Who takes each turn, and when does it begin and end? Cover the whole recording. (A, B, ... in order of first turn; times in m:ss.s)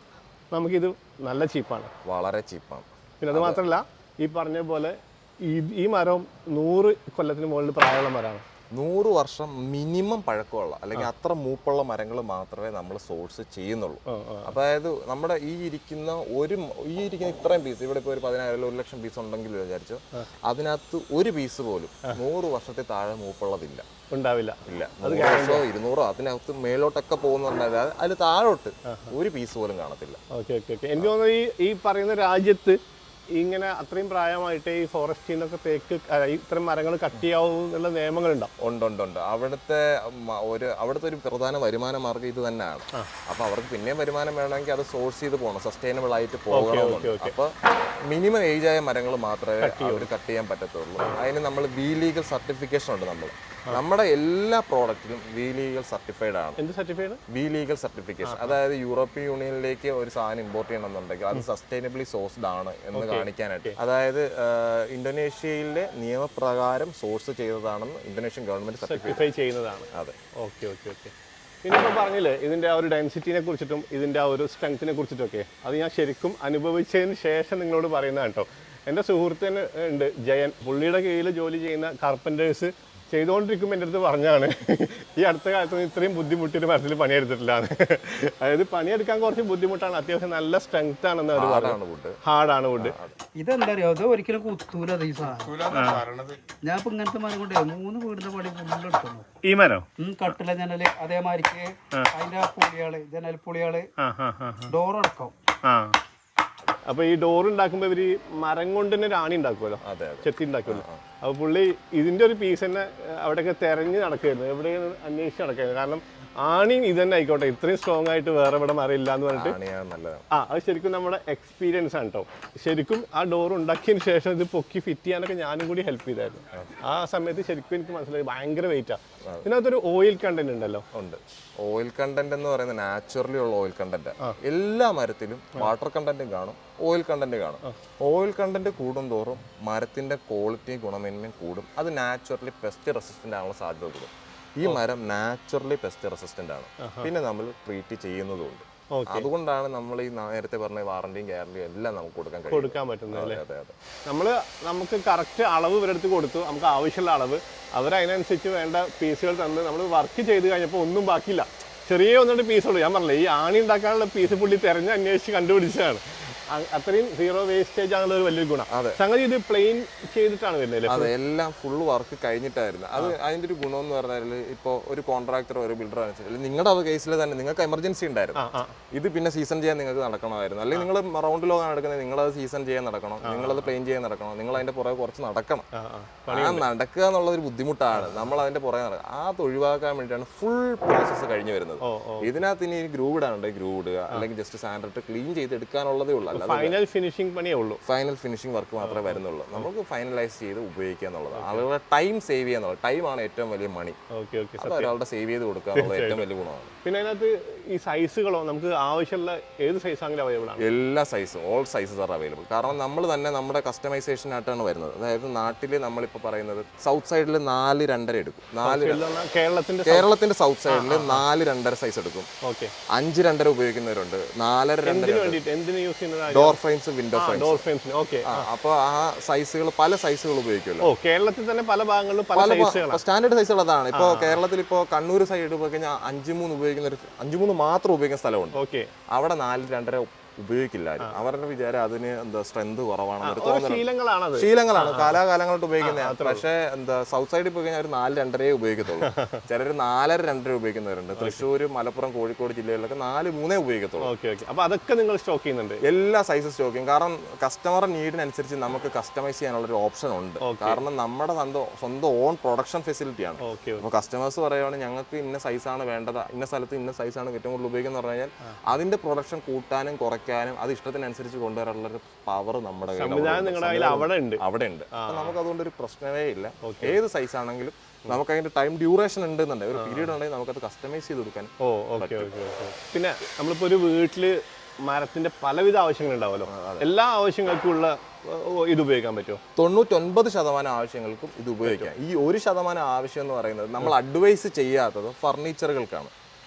0:00.5-0:01.9 A
0:02.0-0:03.6 B
0:03.2-0:08.4 A
0:08.7-0:23.8 B
0:14.1-0:14.5 A
0:24.1-0:25.6 A
0:24.7-0:30.2 B
0:28.9-0:29.1 A
0:30.3-0:32.8 A
0:33.4-0:38.5 A
0:38.6-0:47.5 B
0:46.5-0:47.4 A
0:48.1-0:56.6 B
0:49.6-0:50.1 A
0:56.6-0:57.2 A
0:57.3-1:09.3 B
0:58.3-0:58.5 A
1:02.9-1:03.8 A
1:08.8-1:09.9 A
1:10.4-1:11.1 A
1:11.6-1:33.0 A
1:31.3-1:32.2 B
1:32.8-1:33.2 B
1:33.4-1:39.2 C
1:35.7-1:36.1 A
1:39.4-1:39.9 A
1:40.0-1:43.9 C
1:44.0-1:44.8 A
1:44.7-1:45.3 C
1:45.6-1:46.0 A
1:46.9-1:59.6 A
1:49.8-1:51.0 B
1:59.3-2:00.2 B
2:00.3-2:10.8 A
2:09.2-2:09.5 B
2:10.9-2:33.7 B
2:26.8-2:27.1 A
2:28.9-2:29.3 A
2:32.5-2:33.4 A
2:34.1-2:51.1 A
2:48.7-2:49.0 B
2:50.8-3:05.6 B
2:58.4-2:58.8 A
3:03.2-3:03.7 A
3:05.8-3:06.7 A
3:06.3-3:16.8 B
3:11.8-3:12.3 A
3:16.3-3:17.8 A
3:17.8-3:24.0 B
3:18.8-3:19.7 A
3:21.3-3:21.6 A
3:24.2-3:24.9 A
3:24.6-3:26.7 B
3:25.8-3:26.2 A
3:26.8-3:30.6 A
3:30.6-3:39.0 B
3:38.6-3:40.1 A
3:39.8-3:42.3 B
3:40.7-3:41.2 A
3:42.4-3:42.7 A
3:42.9-3:45.4 B
3:44.8-3:46.6 A
3:46.3-3:47.6 B
3:47.1-3:48.5 A
3:48.2-3:50.9 B
3:50.8-3:53.0 A
3:52.3-3:58.6 B
3:53.9-3:54.4 A
3:58.6-3:58.9 A
3:59.1-4:14.1 B
4:03.2-4:05.2 A
4:05.8-4:06.4 A
4:09.0-4:09.4 A
4:11.2-4:11.4 A
4:14.0-4:15.8 A
4:15.8-4:42.3 B
4:20.4-4:20.8 A
4:23.4-4:23.9 A
4:33.0-4:34.4 A
4:34.9-4:35.4 A
4:36.6-4:37.0 A
4:39.8-4:40.1 A
4:41.6-4:49.4 A
4:46.5-4:46.9 B
4:49.6-4:56.1 B